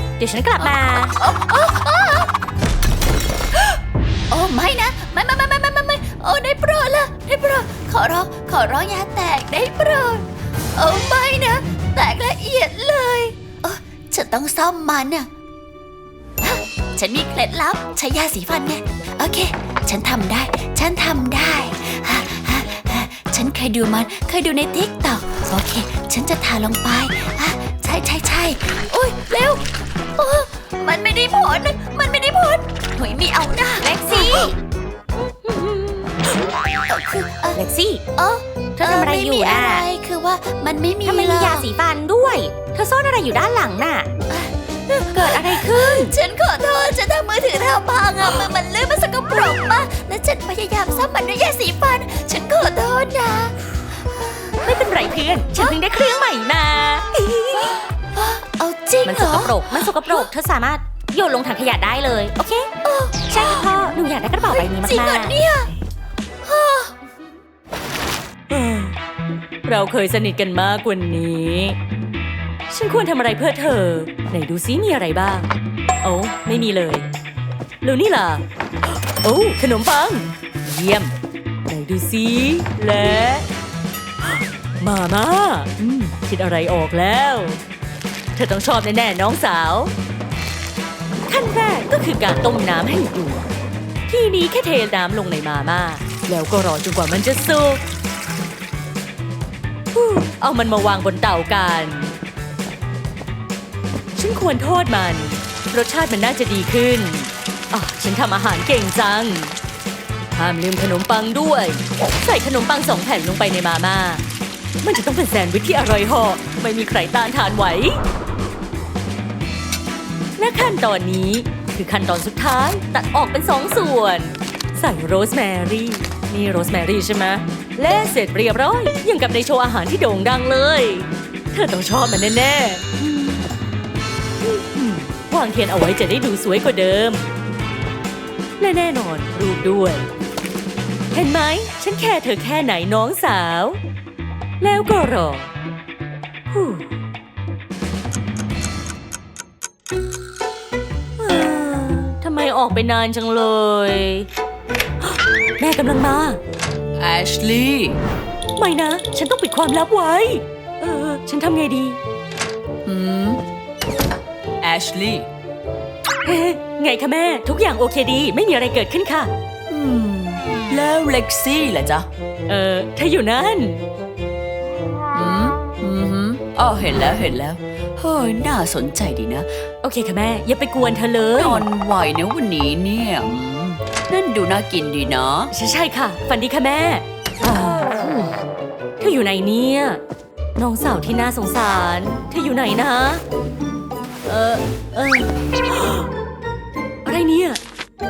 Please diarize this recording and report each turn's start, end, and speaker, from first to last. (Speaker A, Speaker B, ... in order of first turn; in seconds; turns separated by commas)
Speaker A: 0.2-1.1, Speaker B: 0.6-2.3, Speaker B: 4.3-15.3, Speaker B: 16.4-34.5, Speaker A: 33.8-34.5, Speaker A: 35.3-36.3, Speaker B: 36.7-37.6, Speaker A: 37.5-38.0, Speaker B: 38.1-41.7, Speaker A: 38.8-39.9, Speaker A: 41.1-44.1, Speaker B: 44.3-54.6, Speaker A: 45.1-46.1, Speaker A: 54.6-57.7, Speaker B: 55.5-55.9, Speaker B: 57.1-60.3, Speaker A: 59.0-62.7, Speaker B: 62.8-65.7, Speaker A: 63.3-65.4, Speaker B: 66.4-66.9, Speaker A: 68.5-69.0, Speaker A: 69.6-71.8, Speaker A: 72.7-75.5, Speaker A: 76.0-77.1, Speaker A: 77.8-78.4, Speaker A: 79.1-81.1, Speaker A: 81.7-83.5, Speaker A: 84.2-87.6, Speaker A: 88.4-89.9, Speaker A: 91.3-93.5, Speaker A: 94.1-97.8, Speaker A: 99.9-102.2, Speaker A: 104.1-109.5, Speaker A: 110.4-114.2, Speaker A: 114.8-118.0, Speaker A: 120.4-132.9, Speaker A: 134.4-137.3, Speaker A: 138.6-140.1, Speaker A: 141.1-143.8, Speaker A: 144.6-145.5, Speaker A: 146.5-146.9, Speaker A: 151.2-154.3, Speaker A: 155.0-156.4, Speaker C: 157.0-158.0, Speaker A: 158.6-162.0, Speaker C: 162.9-163.4, Speaker C: 164.6-165.3, Speaker A: 166.2-169.3, Speaker C: 169.7-172.1, Speaker A: 172.5-173.8, Speaker C: 175.1-179.5, Speaker A: 179.8-181.6, Speaker C: 181.4-185.5, Speaker A: 185.5-188.3, Speaker A: 189.0-190.0, Speaker A: 190.6-193.2, Speaker A: 194.2-196.1, Speaker A: 197.1-197.6